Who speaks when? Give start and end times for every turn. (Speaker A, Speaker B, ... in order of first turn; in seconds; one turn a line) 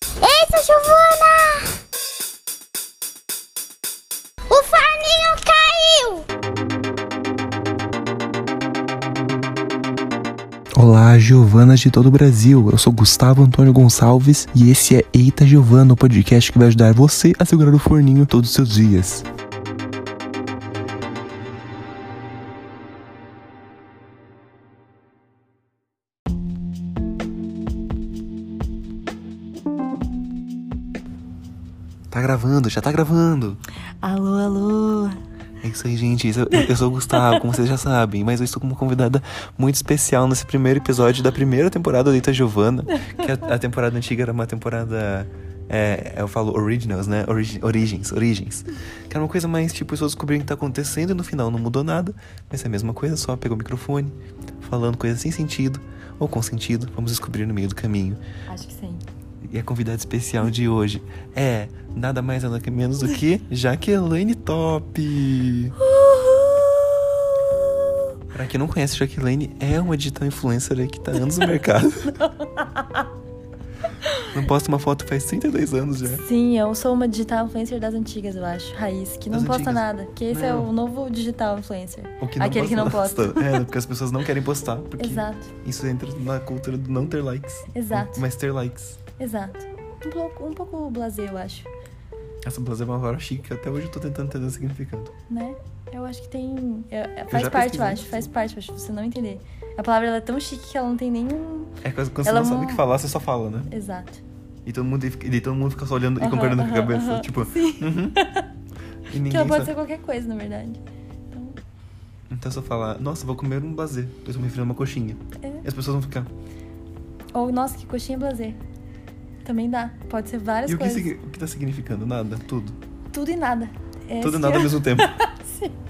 Speaker A: 0.2-1.6
Speaker A: 4.5-6.2
Speaker B: 10.7-19.3
Speaker B: 32.1-33.6
Speaker C: 34.0-35.2
Speaker B: 35.6-58.2
Speaker C: 36.5-37.5
Speaker C: 42.9-43.2
Speaker C: 58.5-59.0
Speaker B: 59.4-65.8
Speaker C: 65.8-67.4
Speaker B: 68.3-72.2
Speaker C: 72.1-73.1
Speaker C: 74.0-74.3
Speaker B: 74.3-76.2
Speaker C: 76.0-83.7
Speaker B: 79.3-80.7
Speaker B: 82.2-89.0
Speaker C: 85.0-85.5
Speaker C: 87.7-88.2
Speaker C: 89.2-91.7
Speaker B: 92.4-95.1
Speaker C: 95.3-102.8
Speaker B: 97.3-98.3
Speaker B: 101.8-103.7
Speaker C: 103.7-104.2
Speaker B: 104.6-108.2
Speaker C: 106.2-108.5
Speaker B: 109.1-109.7
Speaker C: 109.2-110.8
Speaker C: 111.3-111.6
Speaker B: 112.3-116.3
Speaker C: 117.3-118.6
Speaker C: 119.4-121.1
Speaker B: 120.7-122.8
Speaker C: 123.1-125.8
Speaker B: 124.2-125.1